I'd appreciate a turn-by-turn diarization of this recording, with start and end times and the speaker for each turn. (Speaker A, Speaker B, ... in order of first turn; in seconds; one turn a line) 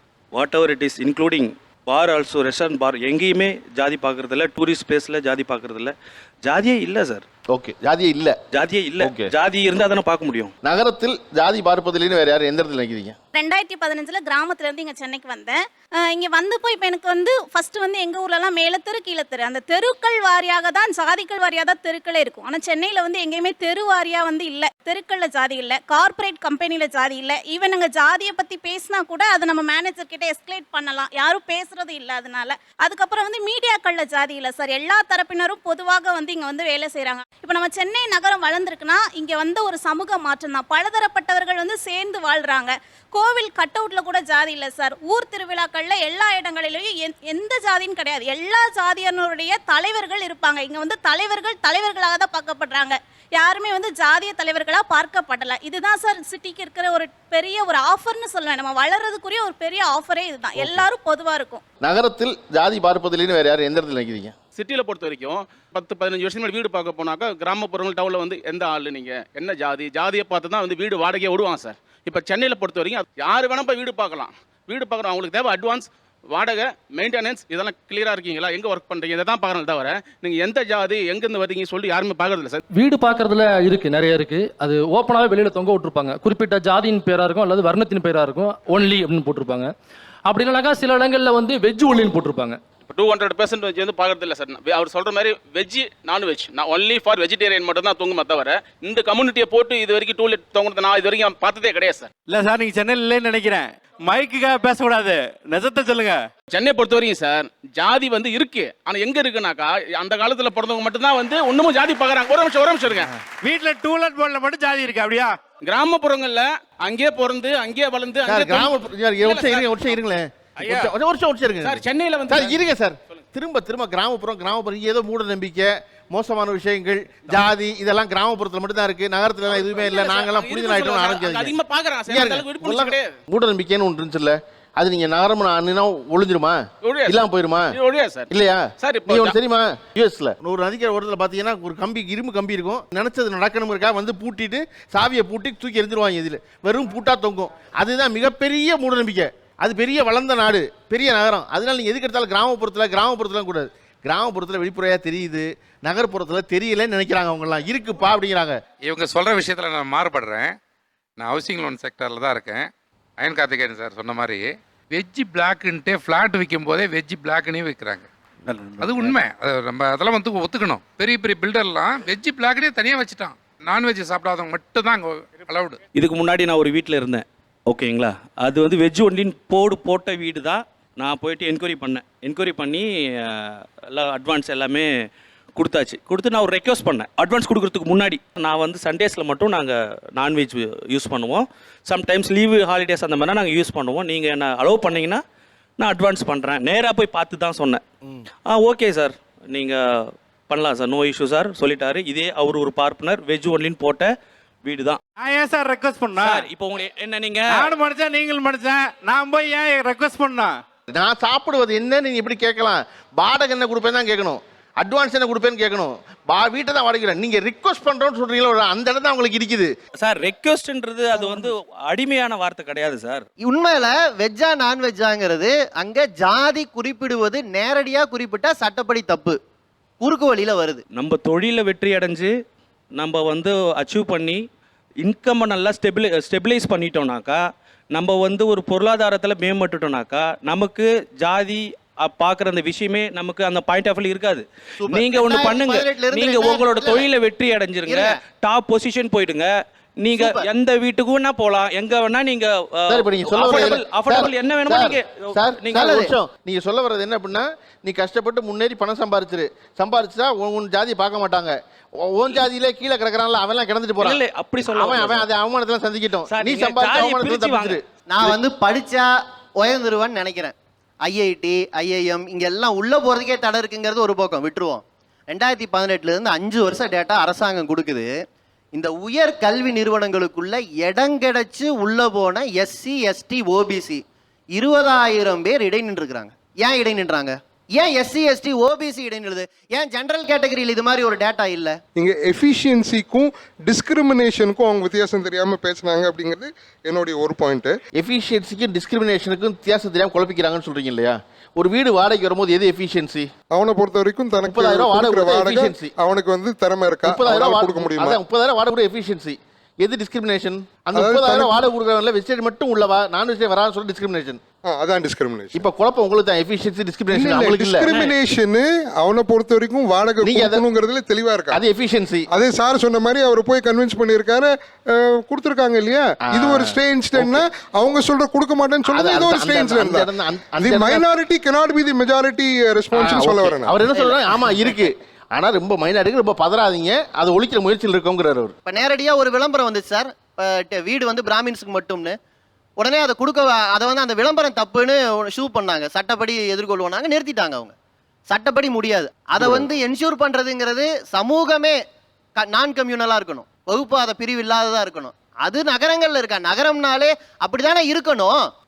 Speaker A: 0.3-7.2
Speaker B: 7.5-8.4
Speaker A: 8.5-10.5
Speaker B: 9.0-9.3
Speaker B: 10.6-13.1
Speaker C: 13.3-61.6
Speaker B: 61.8-64.3
Speaker D: 64.5-82.6
Speaker E: 82.7-89.7
Speaker E: 90.3-92.6
Speaker D: 92.9-102.1
Speaker F: 102.3-106.3
Speaker D: 106.5-113.1
Speaker F: 113.4-115.4
Speaker D: 115.6-119.9
Speaker B: 118.2-131.5
Speaker F: 120.6-120.9
Speaker D: 121.6-122.6
Speaker D: 129.5-133.1
Speaker B: 132.1-137.7
Speaker D: 136.8-138.3
Speaker B: 138.3-158.6
Speaker D: 138.8-139.3
Speaker G: 158.8-160.6
Speaker G: 161.2-175.8
Speaker A: 175.9-184.9
Speaker A: 185.6-195.2
Speaker A: 195.8-197.8
Speaker A: 198.5-204.1
Speaker A: 204.6-205.0
Speaker F: 205.2-206.5
Speaker A: 206.2-207.8
Speaker F: 207.5-210.6
Speaker B: 210.9-219.7
Speaker A: 220.0-223.2
Speaker H: 221.2-221.5
Speaker H: 223.4-229.3
Speaker H: 230.0-230.8
Speaker A: 230.9-232.3
Speaker A: 232.9-234.4
Speaker A: 235.0-249.5
Speaker H: 244.8-247.1
Speaker H: 247.9-248.2
Speaker A: 250.0-255.9
Speaker H: 250.2-250.5
Speaker B: 252.9-264.2
Speaker H: 255.7-256.1
Speaker A: 264.0-265.3
Speaker B: 264.7-267.8
Speaker A: 266.3-267.8
Speaker H: 268.1-269.1
Speaker H: 269.6-270.5
Speaker H: 271.0-278.1
Speaker H: 278.7-284.0
Speaker H: 284.5-291.8
Speaker I: 291.9-297.8
Speaker B: 297.9-303.3
Speaker I: 303.5-308.2
Speaker B: 304.4-305.9
Speaker B: 307.0-314.4
Speaker I: 310.9-311.6
Speaker I: 314.6-315.6
Speaker B: 315.5-318.1
Speaker I: 317.1-321.6
Speaker B: 320.2-320.6
Speaker B: 321.5-322.3
Speaker I: 322.3-333.8
Speaker B: 326.2-327.4
Speaker B: 328.9-331.0
Speaker B: 332.9-338.5
Speaker H: 333.9-334.2
Speaker H: 338.6-342.1
Speaker H: 342.8-347.7
Speaker H: 348.3-351.8
Speaker H: 352.4-358.4